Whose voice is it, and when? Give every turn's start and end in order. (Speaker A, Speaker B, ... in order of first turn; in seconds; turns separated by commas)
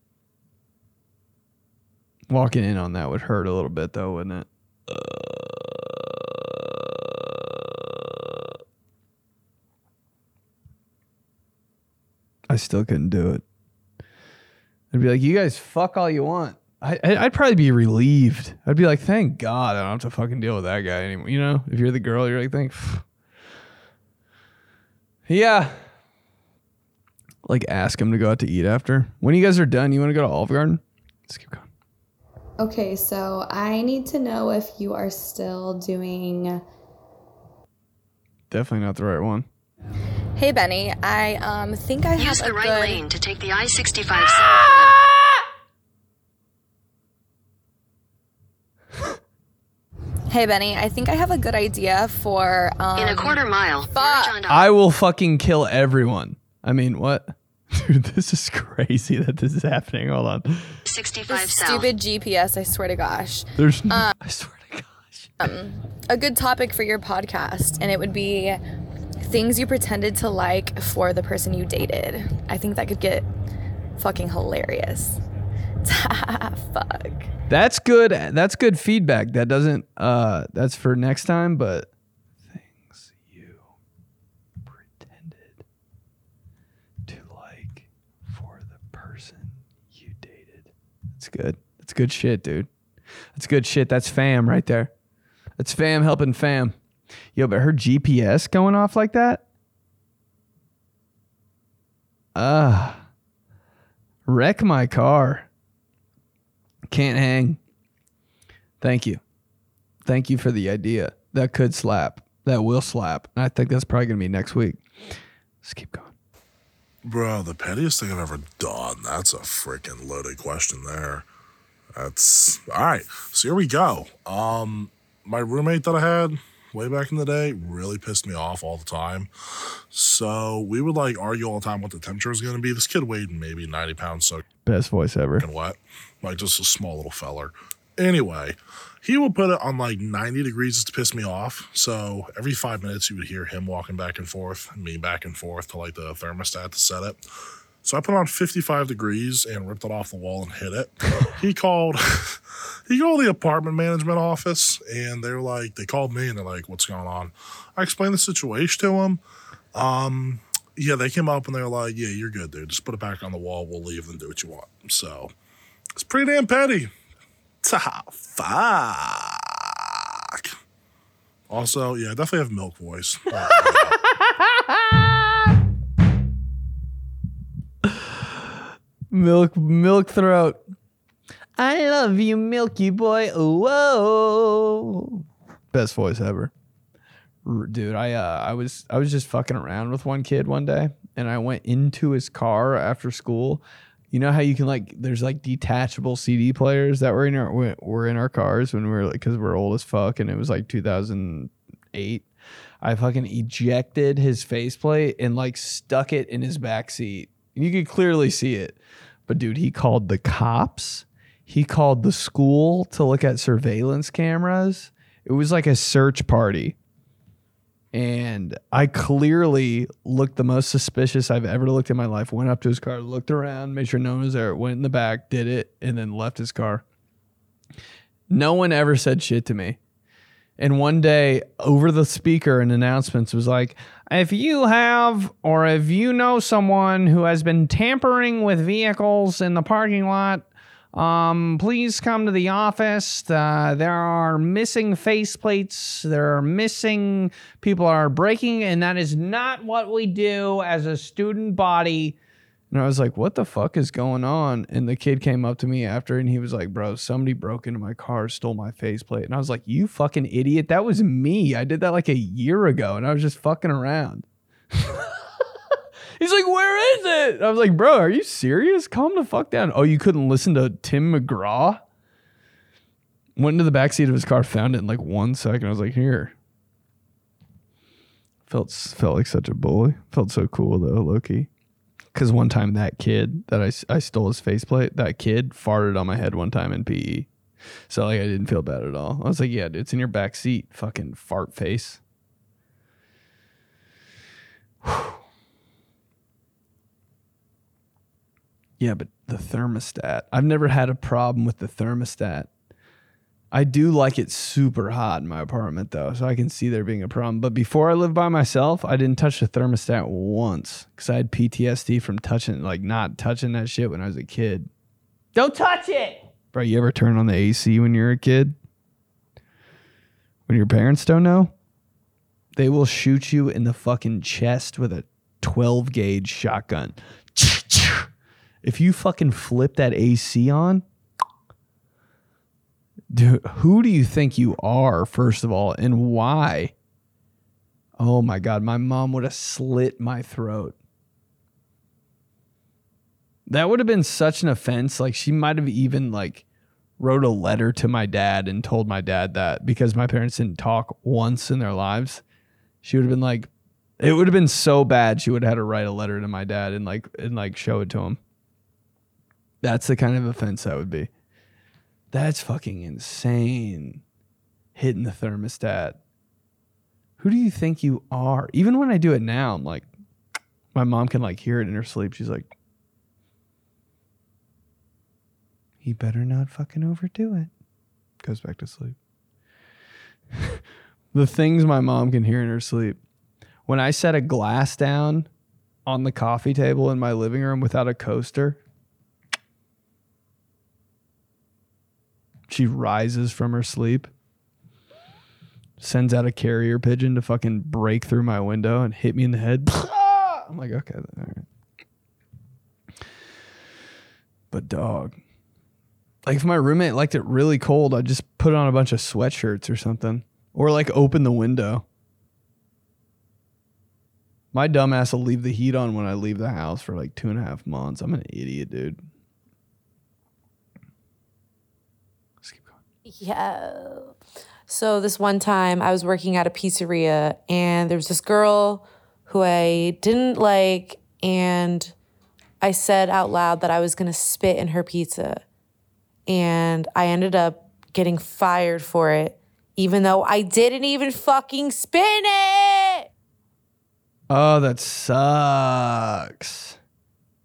Speaker A: 2.3-8.2, Speaker A: 12.5-13.4, Speaker A: 14.9-23.0, Speaker A: 25.3-25.8, Speaker A: 27.4-31.7, Speaker B: 32.6-36.6, Speaker A: 38.5-39.5, Speaker C: 40.4-43.0, Speaker D: 42.1-45.0, Speaker C: 50.3-54.4, Speaker D: 53.0-54.7, Speaker A: 54.5-60.8, Speaker D: 60.9-61.9, Speaker C: 61.3-64.1, Speaker A: 63.6-65.3, Speaker C: 65.4-68.6, Speaker C: 69.2-73.3, Speaker C: 74.0-75.2, Speaker C: 75.8-77.3, Speaker A: 77.5-81.9, Speaker A: 82.5-83.6, Speaker A: 84.7-85.6, Speaker A: 87.1-92.7, Speaker A: 93.3-94.9, Speaker A: 95.6-96.8, Speaker A: 97.3-99.4, Speaker A: 102.3-103.0, Speaker A: 104.3-105.5, Speaker A: 106.9-107.6, Speaker A: 108.8-109.2, Speaker A: 110.0-114.8, Speaker A: 115.6-116.1, Speaker E: 117.0-121.3, Speaker E: 122.0-129.3, Speaker E: 129.9-134.4, Speaker A: 134.7-135.5, Speaker E: 135.4-147.2, Speaker E: 147.8-159.2, Speaker E: 159.7-165.3, Speaker E: 166.0-166.9, Speaker E: 167.6-169.6, Speaker E: 171.5-174.0, Speaker A: 173.5-175.4, Speaker A: 179.1-180.6, Speaker A: 181.6-186.5, Speaker A: 187.4-202.3, Speaker A: 202.8-216.8, Speaker A: 217.9-226.8, Speaker A: 228.3-229.8, Speaker A: 230.6-252.2, Speaker A: 252.7-265.1, Speaker A: 266.2-271.8, Speaker A: 273.4-276.3, Speaker A: 278.5-281.5, Speaker A: 282.1-287.3, Speaker A: 287.9-292.0, Speaker A: 294.8-295.2, Speaker A: 298.8-302.5, Speaker A: 303.5-314.7, Speaker A: 315.4-318.6, Speaker A: 320.5-321.5, Speaker A: 322.6-328.1, Speaker A: 328.6-330.8, Speaker A: 333.1-336.7, Speaker A: 338.0-340.8, Speaker A: 343.5-346.4, Speaker A: 347.0-352.2, Speaker A: 352.8-353.5, Speaker A: 354.0-358.2, Speaker A: 359.6-361.1, Speaker A: 362.1-364.0, Speaker A: 364.8-366.0, Speaker A: 367.2-369.9, Speaker A: 370.7-372.5, Speaker A: 375.8-377.5, Speaker A: 378.2-378.9, Speaker A: 381.1-383.0, Speaker A: 383.7-385.3, Speaker A: 385.9-388.6, Speaker A: 392.5-394.1, Speaker A: 395.8-401.5, Speaker A: 404.5-405.2, Speaker A: 406.2-411.8, Speaker A: 414.5-419.0, Speaker A: 422.4-422.8, Speaker F: 423.1-424.1, Speaker F: 424.7-431.9, Speaker F: 432.6-435.4, Speaker F: 436.3-443.1, Speaker A: 444.3-446.8